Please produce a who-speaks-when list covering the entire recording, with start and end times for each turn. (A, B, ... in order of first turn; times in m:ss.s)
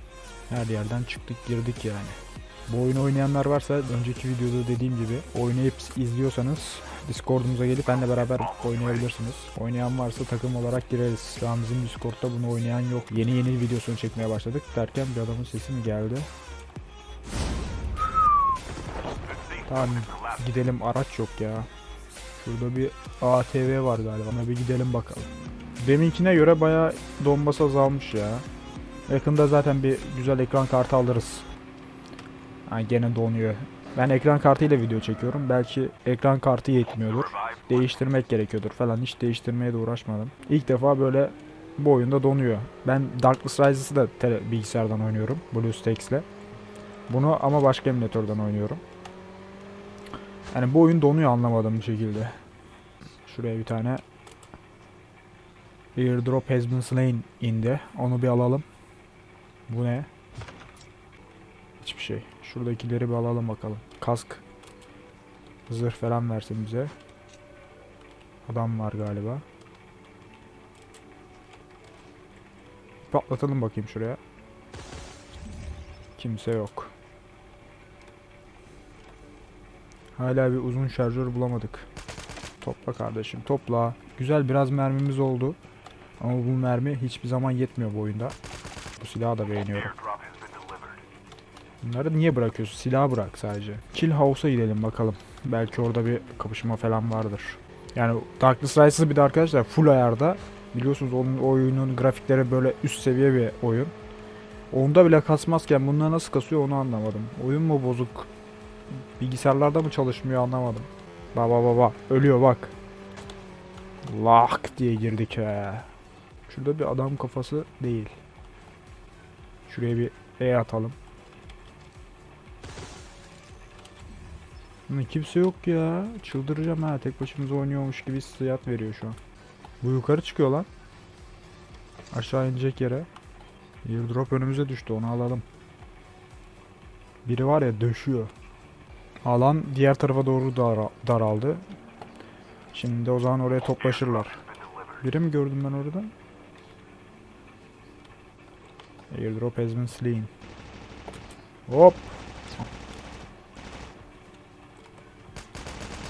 0:00.5-0:16.3 A
0:08.1-0:09.1 B
0:19.3-0:20.4 B
0:19.7-0:21.7 A
0:22.4-0:25.3 A
0:25.8-0:28.5 A
0:29.1-0:31.5 A
0:32.7-0:46.3 A
0:37.2-0:37.8 B
0:47.1-0:48.8 A
0:50.5-0:52.4 A
0:53.2-0:54.0 A
0:56.0-0:58.7 A
0:59.7-1:00.1 A
1:01.8-1:04.4 A
1:05.7-1:06.9 A
1:08.4-1:09.4 A
1:13.1-1:14.2 A
1:16.2-1:16.9 A
1:20.2-1:21.9 A
1:22.6-1:25.6 A
1:26.2-1:28.4 A
1:29.0-1:29.9 A
1:29.7-1:31.0 B
1:31.8-1:43.9 A
1:44.7-1:48.3 A
1:48.9-1:52.7 A
1:54.1-1:55.9 A
1:56.5-1:58.2 A
1:59.7-2:01.0 A
2:04.9-2:09.2 A
2:09.8-2:10.7 A
2:12.1-2:13.1 A
2:13.8-2:15.4 A
2:17.2-2:18.3 A
2:19.2-2:21.6 A
2:22.7-2:24.4 A
2:23.8-2:25.0 B
2:25.0-2:26.1 A
2:29.1-2:30.3 A
2:31.7-2:32.6 A